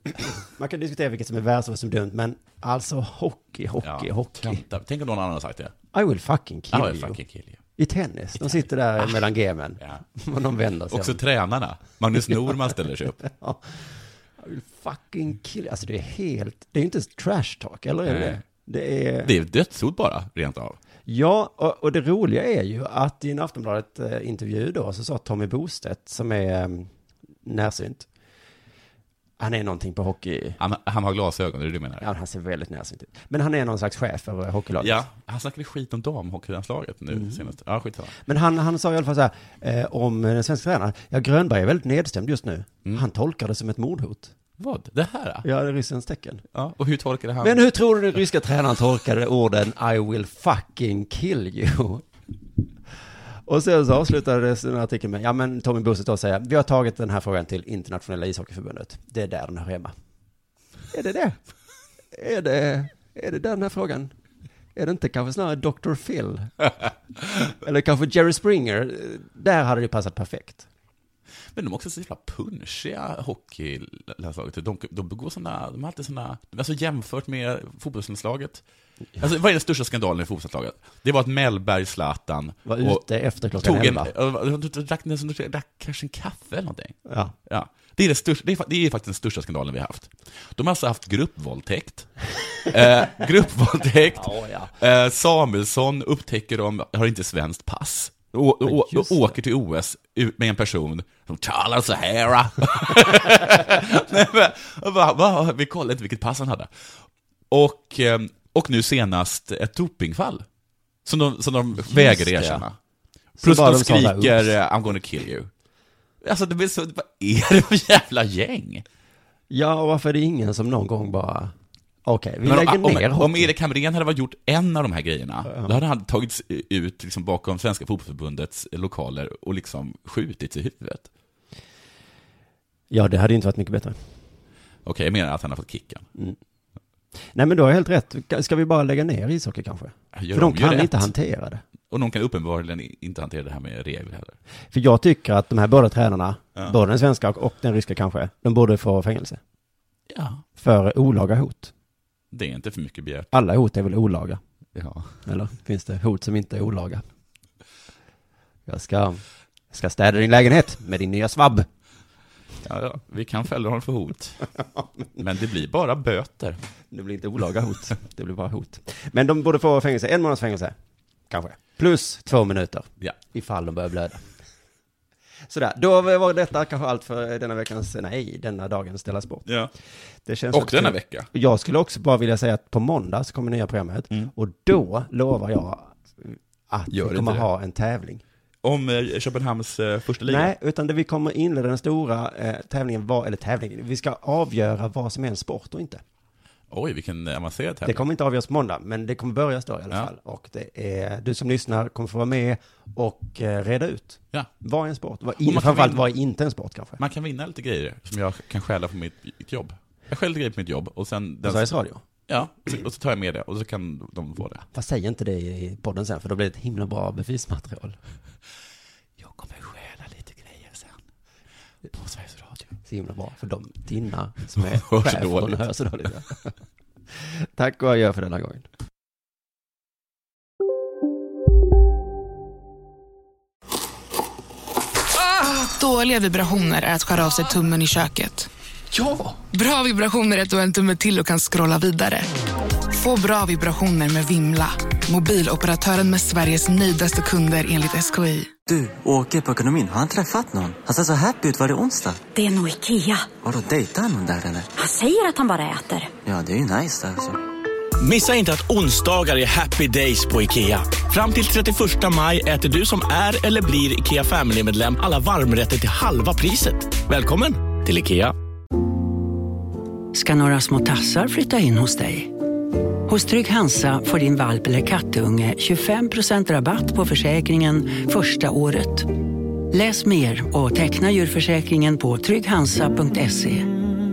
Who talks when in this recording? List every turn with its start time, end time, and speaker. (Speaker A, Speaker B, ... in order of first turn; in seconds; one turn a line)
Speaker A: 0.2-4.6
Speaker B: 3.8-5.7
Speaker A: 5.9-7.2
Speaker B: 6.7-7.6
Speaker A: 7.8-11.2
Speaker B: 8.4-9.2
Speaker B: 10.9-13.2
Speaker A: 13.3-13.7
Speaker A: 14.4-19.4
Speaker B: 18.1-18.4
Speaker B: 19.2-20.8
Speaker A: 21.1-26.9
Speaker A: 27.4-28.1
Speaker A: 29.4-30.6
Speaker B: 30.6-32.1
Speaker A: 32.0-35.0
Speaker B: 34.8-38.1
Speaker A: 37.1-37.4
Speaker A: 38.2-44.3
Speaker B: 44.6-45.5
Speaker A: 45.4-46.4
Speaker B: 46.5-47.6
Speaker A: 47.4-52.0
Speaker A: 53.4-59.9
Speaker A: 60.9-61.4
Speaker A: 62.1-64.1
Speaker A: 64.7-66.5
Speaker A: 67.6-70.7
Speaker B: 71.5-78.6
Speaker B: 79.2-83.0
Speaker A: 82.7-84.1
Speaker B: 83.5-92.1
Speaker A: 87.1-87.3
Speaker B: 92.7-106.7
Speaker A: 94.2-94.7
Speaker A: 98.6-99.4
Speaker B: 107.5-110.4
Speaker B: 111.0-112.8
Speaker A: 111.8-112.6
Speaker A: 113.4-114.5
Speaker B: 113.4-115.5
Speaker B: 116.2-118.8
Speaker A: 119.5-121.5
Speaker A: 122.0-123.5
Speaker B: 122.4-131.1
Speaker A: 125.4-125.8
Speaker A: 132.9-134.0
Speaker B: 134.8-136.1
Speaker A: 137.3-141.6
Speaker B: 140.1-141.1
Speaker B: 141.9-144.4
Speaker A: 144.7-149.4
Speaker B: 150.1-150.4
Speaker A: 150.6-151.7
Speaker B: 152.3-153.3
Speaker A: 153.3-154.4
Speaker B: 154.8-155.2
Speaker A: 155.2-157.0
Speaker A: 158.7-161.7
Speaker B: 162.6-164.5
Speaker B: 165.2-166.6
Speaker A: 166.9-170.8
Speaker A: 171.3-174.2
Speaker A: 175.5-179.4
Speaker A: 180.2-188.2
Speaker B: 180.5-181.3
Speaker B: 186.9-187.4
Speaker B: 188.6-190.5
Speaker A: 190.2-196.0
Speaker B: 196.7-198.0
Speaker A: 197.8-207.0
Speaker B: 205.4-206.1
Speaker B: 207.0-211.8
Speaker A: 211.4-212.0
Speaker B: 212.3-214.6
Speaker A: 214.7-218.0
Speaker B: 219.2-221.0
Speaker B: 221.9-222.7
Speaker A: 222.8-226.5
Speaker B: 224.6-225.6
Speaker A: 227.2-228.7
Speaker C: 235.2-238.5
Speaker C: 239.3-242.3
Speaker C: 242.9-248.5
Speaker D: 248.7-252.2
Speaker E: 252.3-253.3
Speaker D: 253.3-254.7
Speaker E: 254.8-256.1
Speaker D: 256.2-257.4
Speaker F: 258.0-268.3
Speaker G: 270.1-272.4
Speaker G: 273.1-283.7